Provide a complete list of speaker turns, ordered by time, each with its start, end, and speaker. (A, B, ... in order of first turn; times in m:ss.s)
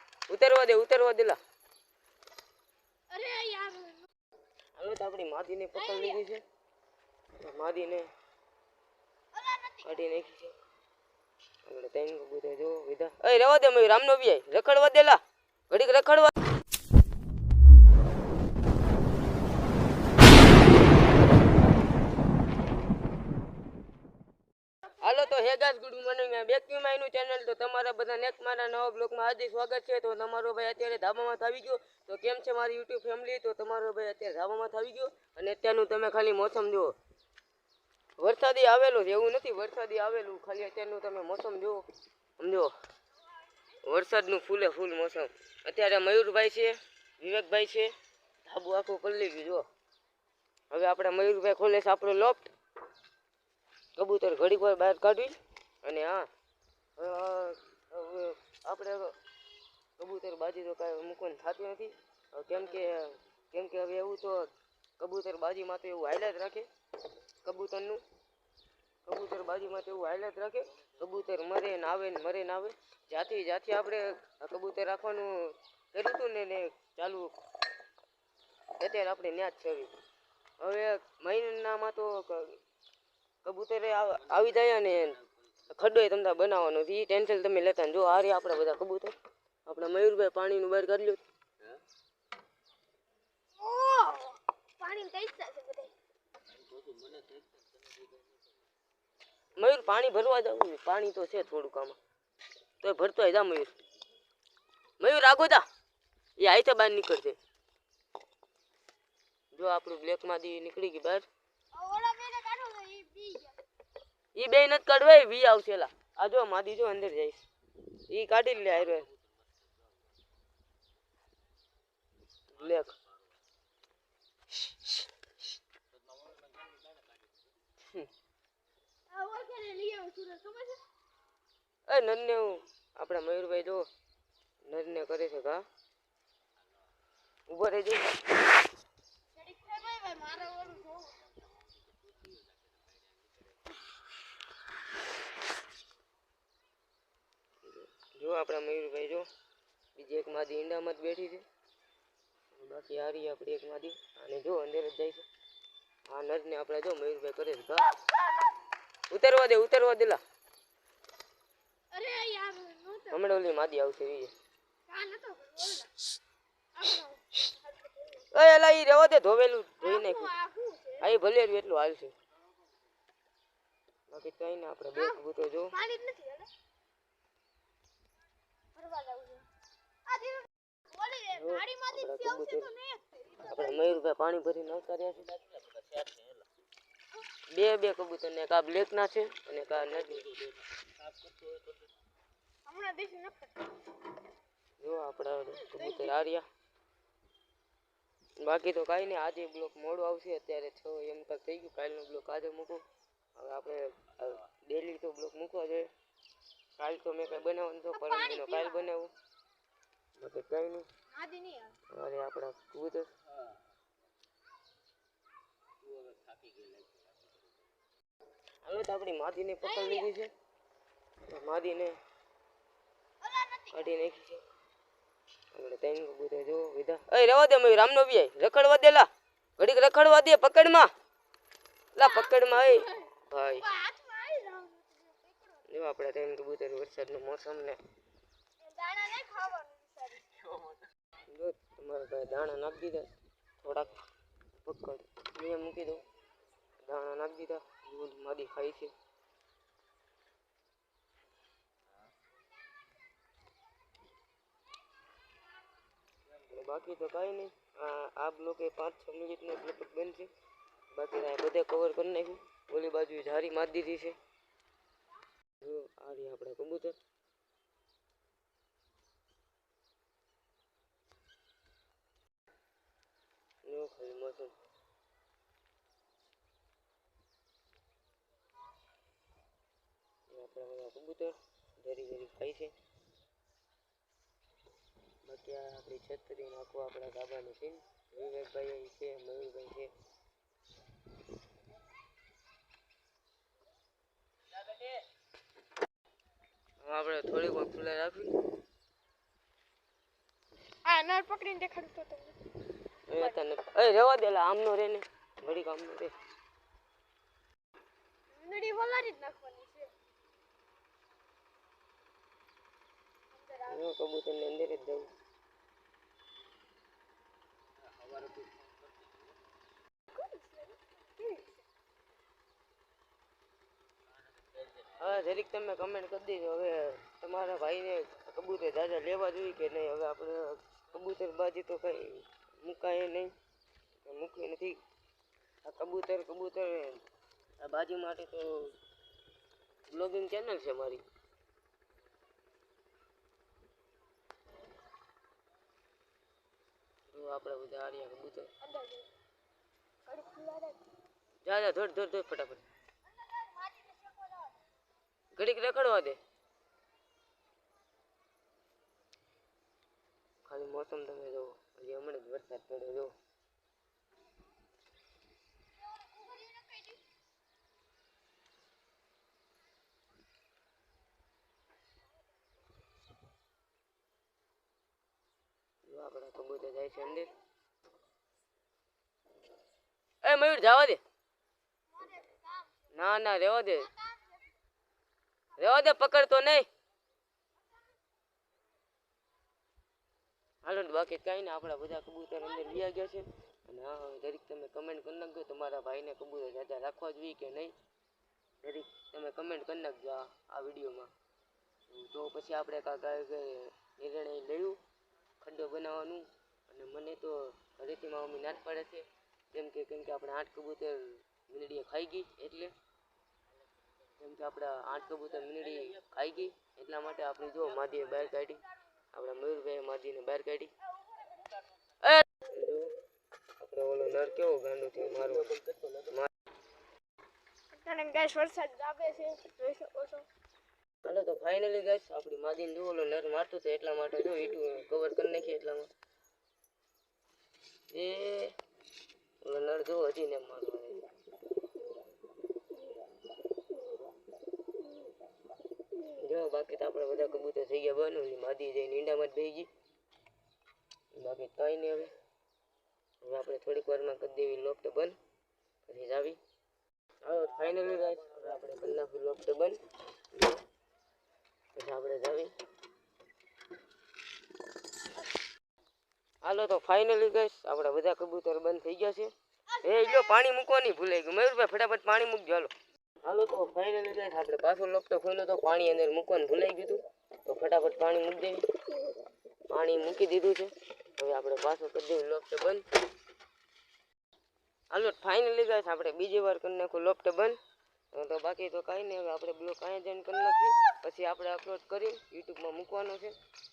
0:00.3-0:01.4 A
0:03.1-0:04.1 B
0:04.8-0:06.4 A
0:05.8-0:06.2 B
0:07.4-0:08.1 A
0:09.3-0:10.0 B
0:09.8-0:10.5 A
0:11.6-0:16.3 A
0:25.0-0:36.9 A
0:38.2-0:41.8 A
0:42.4-0:42.7 A
0:43.8-0:47.9 A
0:48.4-0:49.6 A
0:50.7-0:52.5 A
0:54.0-0:56.3 A
0:57.0-0:59.1 A
1:00.0-1:06.7 A
1:07.4-1:08.0 A
1:09.0-1:17.3 A
1:18.8-1:19.9 A
1:20.6-1:22.6 A
1:23.4-1:29.2 A
1:29.7-1:31.2 A
1:33.6-1:35.9 B
1:39.6-1:42.0 A
1:42.8-1:43.8 A
1:45.0-1:45.6 A
1:46.4-1:47.4 A
1:49.5-1:51.3 A
1:51.7-1:53.6 B
1:54.3-1:57.4 A
1:58.1-1:59.1 A
2:02.5-2:03.0 A
2:07.8-2:08.1 A
2:09.1-2:10.8 B
2:11.9-2:13.9 A
2:14.7-2:15.6 A
2:17.5-2:18.2 A
2:19.3-2:21.3 B
2:27.6-2:29.3 A
2:30.0-2:31.4 A
2:32.5-2:35.3 A
2:36.1-2:38.0 A
2:39.1-2:40.2 A
2:41.9-2:43.3 B
2:43.1-2:44.3 A
2:44.9-2:46.1 B
2:46.7-2:48.3 B
2:48.3-2:50.3 A
2:49.8-2:51.1 B
2:51.0-2:52.1 A
2:54.1-2:55.8 A
2:54.9-2:56.5 B
2:58.7-2:59.5 B
3:00.0-3:03.8 B
3:01.3-3:02.7 A
3:03.4-3:05.6 A
3:07.5-3:10.4 A
3:12.6-3:13.8 B
3:14.8-3:16.4 A
3:15.6-3:16.2 B
3:18.4-3:22.8 A
3:23.4-3:25.9 A
3:26.8-3:29.1 A
3:27.9-3:28.9 B
3:30.2-3:30.9 A
3:31.1-3:31.8 B
3:31.9-3:33.1 A
3:38.6-3:40.3 A
3:39.6-3:40.1 B
3:41.3-3:42.0 A
3:43.2-3:43.8 B
3:43.7-3:44.4 A
3:45.5-3:50.9 A
3:51.9-3:53.7 A
3:52.0-3:53.1 B
3:53.6-3:55.6 B
3:55.7-3:57.8 A
3:58.6-4:00.4 B
4:01.3-4:03.1 A
4:03.6-4:04.0 A
4:04.6-4:06.0 A
4:06.9-4:08.9 A
4:16.5-4:20.3 A
4:20.9-4:24.2 A
4:25.6-4:27.0 A
4:33.6-4:34.5 A
4:40.3-4:42.7 A
4:45.2-4:49.9 A
4:56.8-4:58.4 A
5:00.8-5:02.4 B
5:03.1-5:06.1 A
5:08.3-5:09.9 B
5:13.3-5:13.9 B
5:13.7-5:15.1 A
5:20.1-5:21.6 B
5:24.8-5:33.3 A
5:34.0-5:34.8 A
5:35.6-5:37.0 A
5:37.6-5:38.8 A
5:39.9-5:41.0 A
5:47.1-5:48.5 A
5:48.6-5:49.1 B
5:50.0-5:50.8 B
5:51.4-5:52.6 A
5:53.2-5:54.5 B
5:55.3-5:56.2 A
6:00.4-6:03.1 A
6:05.8-6:07.0 B
6:15.9-6:17.3 A
6:20.2-6:21.0 A
6:21.9-6:22.8 B
6:22.9-6:23.9 A
6:23.9-6:24.4 B
6:25.6-6:26.7 A
6:30.6-6:37.7 A
6:38.6-6:41.1 A
6:41.9-6:44.8 A
6:45.4-6:52.7 A
6:54.2-7:00.7 A
7:02.0-7:02.9 A
7:03.6-7:06.3 A
7:07.7-7:10.3 B
7:11.0-7:15.9 A
7:17.9-7:18.5 A
7:19.4-7:21.1 A
7:26.0-7:29.7 A
7:31.1-7:32.1 A
7:33.2-7:35.2 A
7:35.8-7:36.4 A
7:37.2-7:39.8 A
7:40.3-7:40.6 A
7:41.7-7:42.5 A
7:46.4-7:52.7 A
7:49.7-7:50.4 B
7:53.2-7:58.7 A
7:59.7-8:02.8 A
8:04.9-8:07.6 A
8:08.1-8:13.3 A